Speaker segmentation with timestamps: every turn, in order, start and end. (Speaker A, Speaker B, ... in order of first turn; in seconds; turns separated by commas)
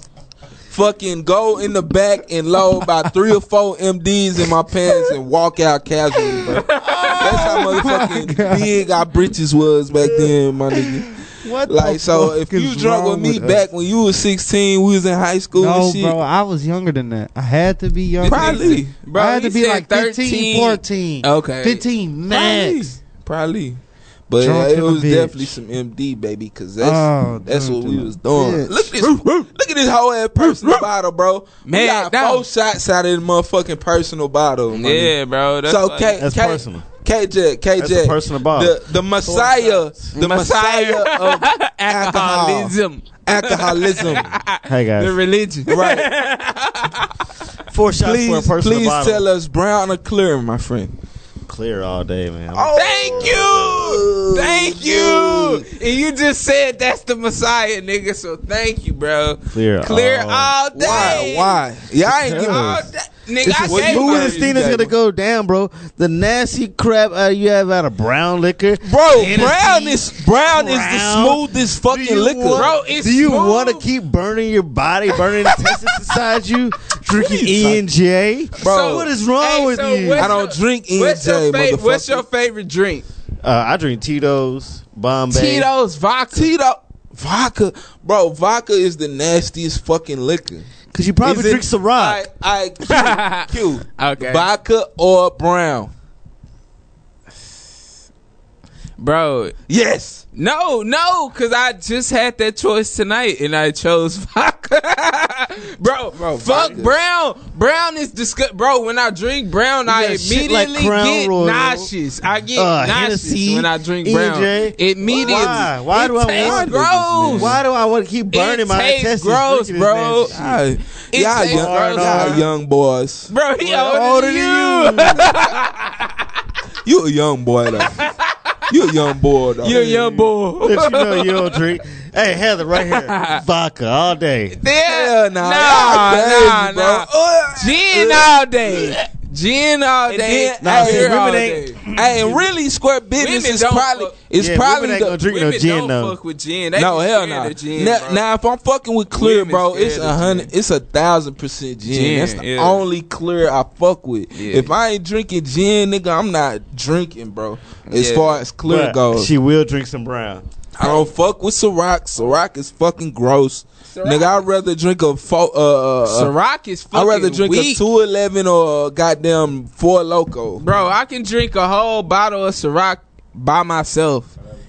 Speaker A: 0.7-6.6, Speaker B: 6.7-7.8, Speaker C: 7.0-8.7, Speaker A: 7.2-11.2, Speaker D: 11.4-12.0, Speaker A: 11.7-16.1, Speaker C: 11.8-13.6, Speaker C: 15.6-23.0, Speaker B: 18.2-21.8, Speaker A: 18.2-18.9, Speaker A: 22.3-44.3, Speaker C: 24.4-25.6, Speaker C: 26.8-29.4, Speaker B: 30.4-30.8, Speaker B: 31.6-32.4, Speaker B: 34.7-36.2, Speaker D: 36.2-36.8, Speaker D: 37.8-40.1, Speaker B: 40.1-47.1, Speaker D: 44.7-45.2, Speaker A: 45.7-46.1, Speaker D: 47.7-49.2, Speaker A: 48.0-50.9, Speaker D: 51.5-53.7, Speaker A: 52.5-55.7, Speaker B: 52.7-61.6, Speaker D: 59.5-61.2, Speaker A: 60.7-62.9, Speaker D: 62.0-62.9, Speaker B: 62.2-64.6, Speaker D: 63.4-80.3, Speaker A: 63.5-64.9, Speaker A: 68.8-72.7, Speaker B: 69.1-69.5, Speaker B: 72.5-73.8, Speaker B: 75.2-75.9, Speaker A: 77.2-77.8, Speaker A: 78.6-79.1, Speaker B: 78.6-83.0, Speaker A: 80.2-82.2, Speaker D: 83.4-85.7, Speaker B: 85.3-86.5, Speaker A: 86.3-90.7, Speaker D: 90.9-92.3, Speaker A: 91.2-95.9, Speaker B: 92.8-94.5, Speaker B: 99.0-99.6, Speaker A: 99.7-100.2, Speaker B: 100.3-117.6, Speaker A: 106.1-106.9, Speaker D: 109.8-111.9, Speaker D: 112.5-120.6, Speaker A: 115.1-115.4, Speaker A: 116.3-117.6, Speaker B: 118.3-120.3, Speaker A: 120.3-123.3, Speaker B: 121.1-122.4, Speaker D: 121.5-122.5, Speaker B: 123.3-126.1, Speaker D: 123.6-125.3, Speaker C: 124.2-124.8, Speaker A: 126.8-128.0, Speaker B: 127.8-128.1, Speaker A: 128.7-130.2, Speaker B: 129.6-131.6, Speaker D: 130.6-134.6, Speaker B: 132.8-133.4, Speaker B: 134.5-141.8, Speaker A: 134.8-139.0, Speaker A: 140.1-141.2, Speaker D: 140.6-142.4, Speaker A: 141.9-145.2, Speaker B: 143.2-144.3, Speaker D: 144.3-146.2, Speaker B: 145.2-148.2, Speaker A: 146.8-159.3, Speaker B: 149.1-150.5, Speaker B: 151.9-152.8, Speaker B: 154.3-154.7, Speaker B: 157.9-158.4, Speaker D: 158.6-160.4, Speaker A: 160.8-166.3, Speaker B: 160.8-161.1, Speaker B: 163.9-164.4, Speaker B: 166.0-167.8, Speaker A: 166.9-170.7, Speaker B: 170.6-174.3